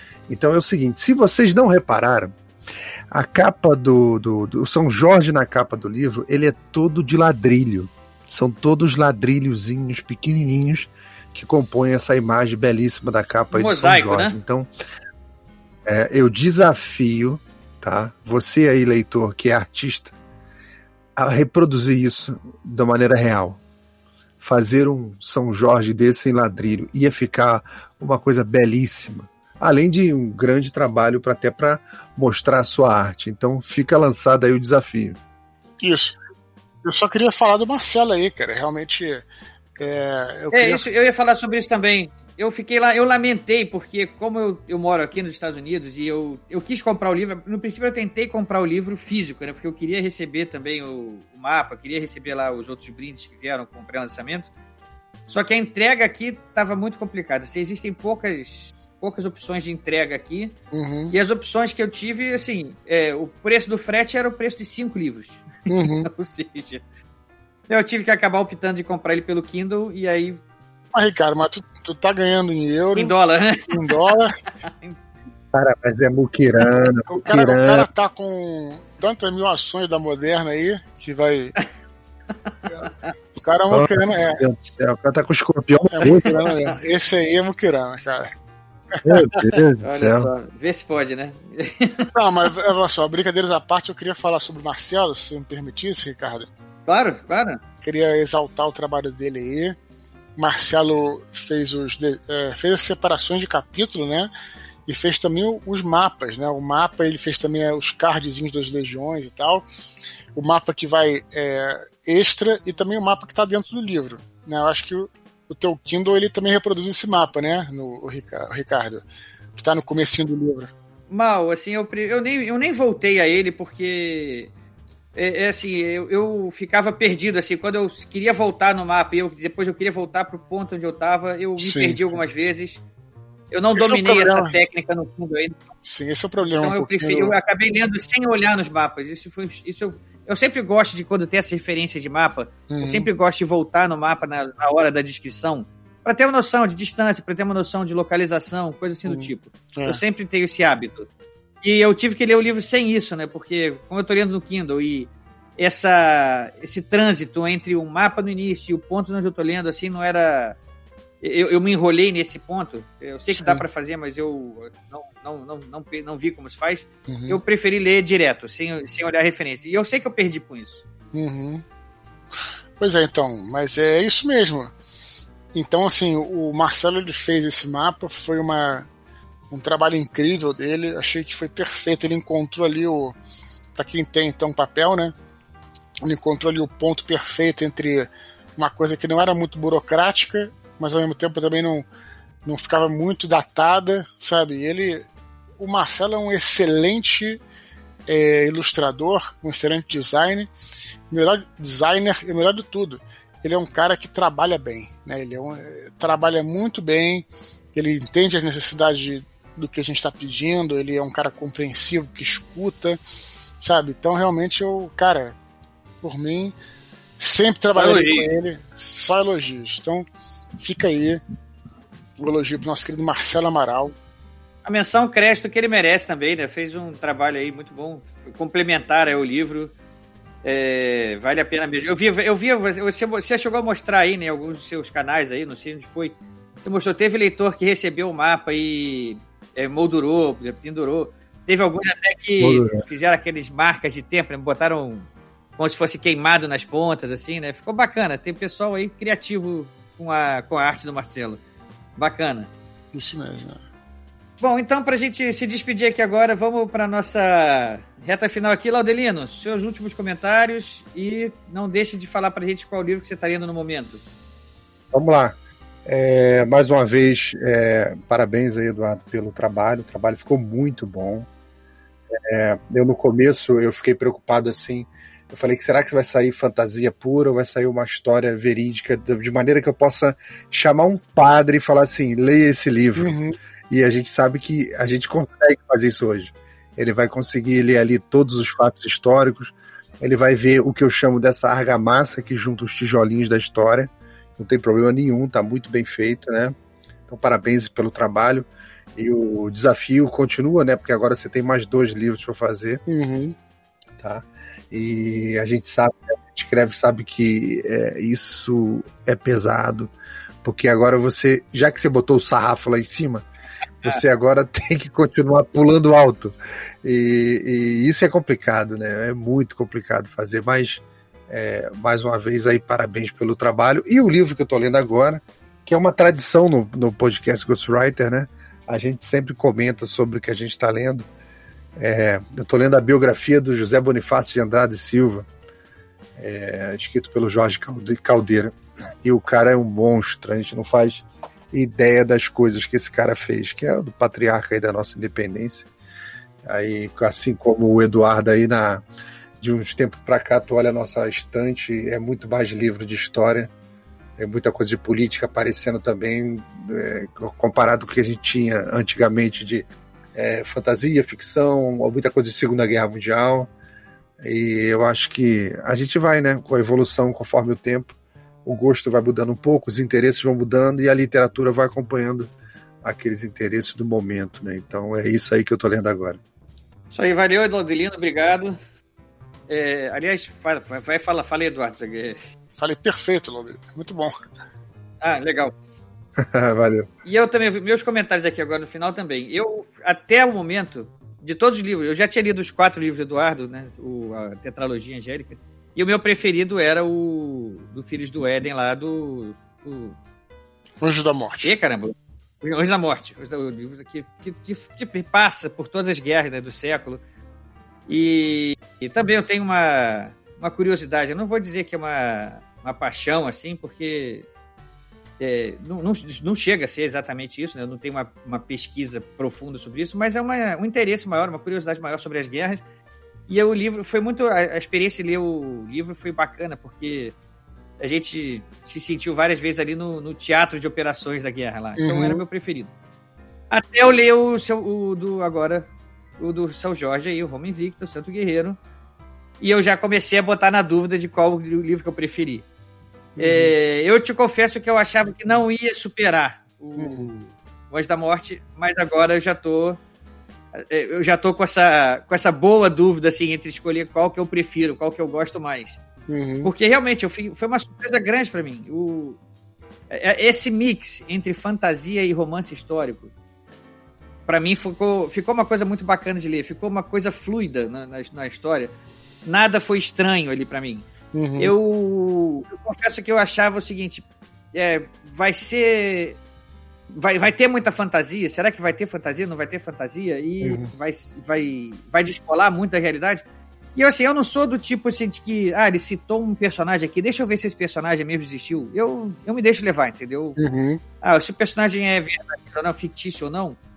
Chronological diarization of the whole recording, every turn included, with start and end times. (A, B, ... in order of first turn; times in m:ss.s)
0:00.3-0:02.4 A
0:03.1-0:14.7 A
0:13.5-0:14.4 B
0:15.9-0:20.2 A
0:21.2-0:23.6 A
0:24.4-0:35.2 A
0:35.8-0:36.2 C
0:36.8-0:39.3 C
0:39.8-0:40.9 C
0:40.5-0:54.5 B
0:55.3-1:00.6 B
1:00.7-1:01.2 C
1:01.1-1:06.8 B
1:05.7-1:06.1 C
1:07.7-1:10.4 B
1:10.9-1:13.2 C
1:13.0-1:13.9 B
1:13.7-1:14.4 C
1:14.6-1:15.0 B
1:15.5-1:17.9 A
1:17.1-1:21.6 C
1:22.5-1:23.1 B
1:23.4-1:24.4 C
1:23.7-1:26.5 A
1:25.9-1:28.3 C
1:28.9-1:29.6 C
1:29.0-1:30.3 A
1:29.8-1:32.0 B
1:32.1-1:36.5 C
1:36.9-1:37.6 B
1:37.8-1:39.8 C
1:40.4-1:44.3 C
1:44.9-1:49.6 C
1:50.3-2:00.7 C
2:01.1-2:04.5 B
2:05.2-2:12.8 B
2:11.6-2:12.2 C
2:13.5-2:15.6 B
2:13.8-2:14.6 C
2:15.8-2:17.4 C
2:16.6-2:31.1 B
2:22.7-2:23.1 C
2:29.0-2:30.0 C
2:31.6-2:40.6 B
2:41.2-2:50.8 B
2:43.3-2:43.6 C
2:47.1-2:47.4 C
2:51.1-2:51.6 C
2:52.8-2:54.8 C
2:55.5-2:58.9 C
2:59.5-3:03.2 C
3:03.8-3:05.2 C
3:06.0-3:11.8 C
3:12.4-3:17.4 C
3:18.1-3:20.5 C
3:21.1-3:33.0 C
3:33.6-3:35.4 C
3:36.0-3:36.6 C
3:37.2-3:40.0 C
3:37.7-3:38.3 B
3:40.6-3:41.2 C
3:42.2-3:44.0 C
3:44.6-3:49.7 B
3:50.4-4:05.1 B
4:02.4-4:02.8 A
4:05.6-4:11.4 B
4:12.0-4:12.5 B
4:12.9-4:13.6 C
4:14.4-4:24.0 B
4:24.9-4:31.3 A
4:32.3-4:43.1 A
4:43.0-4:43.4 C
4:43.7-4:56.6 A
4:57.1-5:02.8 A
5:02.9-5:03.4 C
5:04.0-5:09.9 A
5:10.4-5:13.3 A
5:13.8-5:31.1 A
5:31.8-5:35.3 A
5:36.2-5:45.7 A
5:46.4-5:48.8 A
5:49.4-5:53.5 A
5:54.2-6:03.5 A
6:04.2-6:12.3 A
6:12.8-6:16.2 A
6:16.9-6:18.6 B
6:19.5-6:22.2 B
6:22.6-6:24.1 C
6:25.0-6:25.5 B
6:26.2-6:26.9 A
6:27.0-6:40.0 B
6:40.8-6:41.5 C
6:41.4-6:47.0 B
6:47.9-6:54.3 B
6:55.2-7:02.6 B
7:03.3-7:07.1 B
7:07.8-7:12.7 B
7:11.8-7:12.2 C
7:13.5-7:15.7 B
7:16.2-7:18.6 B
7:19.4-7:22.4 B
7:23.2-7:23.6 C
7:23.2-7:29.8 B
7:26.8-7:27.1 C
7:30.6-7:35.8 B
7:36.1-7:36.5 C
7:36.4-7:39.2 B
7:39.9-7:43.1 B
7:44.3-7:48.7 B
7:49.2-7:56.2 B
7:51.1-7:51.5 C
7:56.9-8:03.2 B
8:00.4-8:00.7 C
8:03.8-8:10.4 B
8:10.4-8:10.8 C
8:11.0-8:13.6 B